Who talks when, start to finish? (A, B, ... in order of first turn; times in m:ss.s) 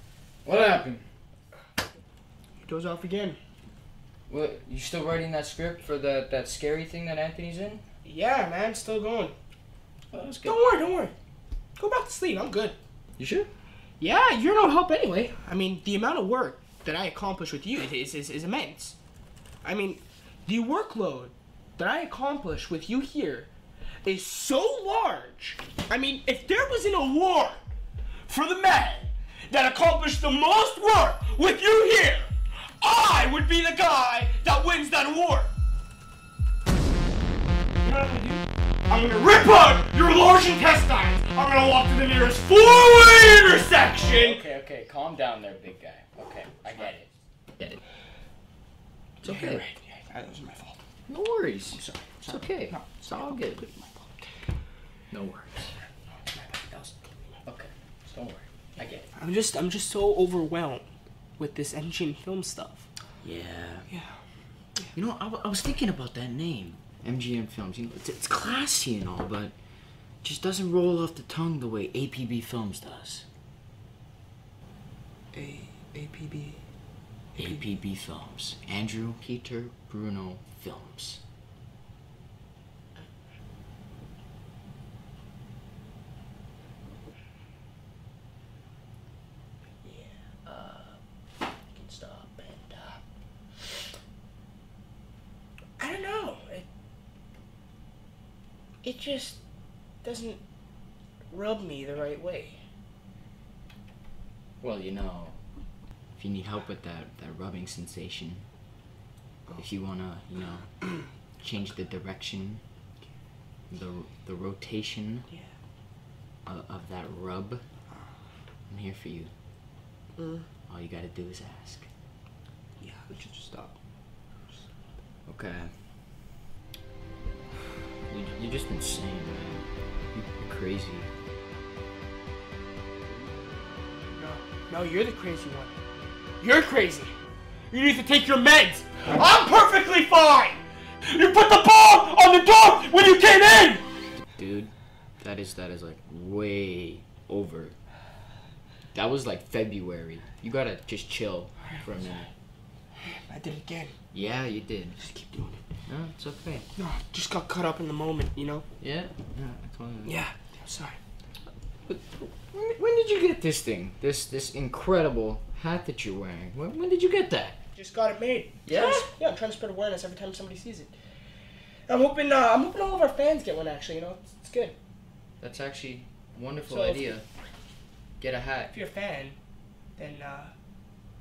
0:00.4-0:01.0 A
0:02.6-0:03.4 B
0:04.3-0:07.8 A
0:08.0-0:09.3 B
0:10.1-0:10.6 A
0:10.4-0:11.1 B
0:11.8-0:12.8 B
0:13.2-0:13.5 A
0:14.0-0:19.0 B
0:19.6-0:23.5 B
0:24.0-0:27.6 B
0:28.2-0:35.5 B
0:37.8-0:44.4 B
0:44.0-0:47.8 A
0:49.2-0:49.6 A
0:49.2-0:50.8 B
0:51.1-0:53.6 A
0:51.7-0:54.1 B
0:55.1-0:55.7 A
0:56.3-0:57.2 B
0:57.4-0:59.1 A
0:59.1-1:00.8 B
1:01.4-1:02.8 B
1:03.2-1:03.9 A
1:03.9-1:04.2 B
1:04.9-1:09.5 A
1:10.2-1:13.2 A
1:15.3-1:16.6 B
1:17.3-1:17.6 B
1:17.4-1:21.2 A
1:29.8-1:30.9 B
1:31.7-1:33.0 B
1:35.8-1:36.6 B
1:38.8-1:39.4 B
1:40.0-1:40.4 B
1:41.3-1:42.6 B
1:44.6-1:45.4 A
1:46.2-1:48.4 A
1:49.6-1:50.7 A
1:51.4-1:52.6 A
1:53.7-1:55.3 A
1:56.4-1:57.6 A
1:58.7-1:59.3 A
2:00.2-2:00.4 B
2:00.7-2:01.9 A
2:02.8-2:03.8 B
2:05.3-2:05.8 A
2:08.1-2:11.1 A
2:13.1-2:15.8 B
2:16.4-2:17.1 B
2:17.7-2:23.8 B
2:24.4-2:27.7 A
2:28.9-2:32.3 A
2:33.0-2:33.9 B
2:34.1-2:35.0 A
2:35.0-2:35.6 B
2:35.9-2:36.7 A
2:36.8-2:38.6 B
2:38.8-2:40.2 A
2:40.0-2:41.0 B
2:41.8-2:47.6 A
2:47.8-2:50.9 B
2:48.6-2:49.1 A
2:51.9-2:54.7 B
2:55.4-2:57.2 A
2:56.7-2:57.2 B
2:58.2-2:58.7 A
2:58.7-2:59.4 B
3:00.0-3:00.5 B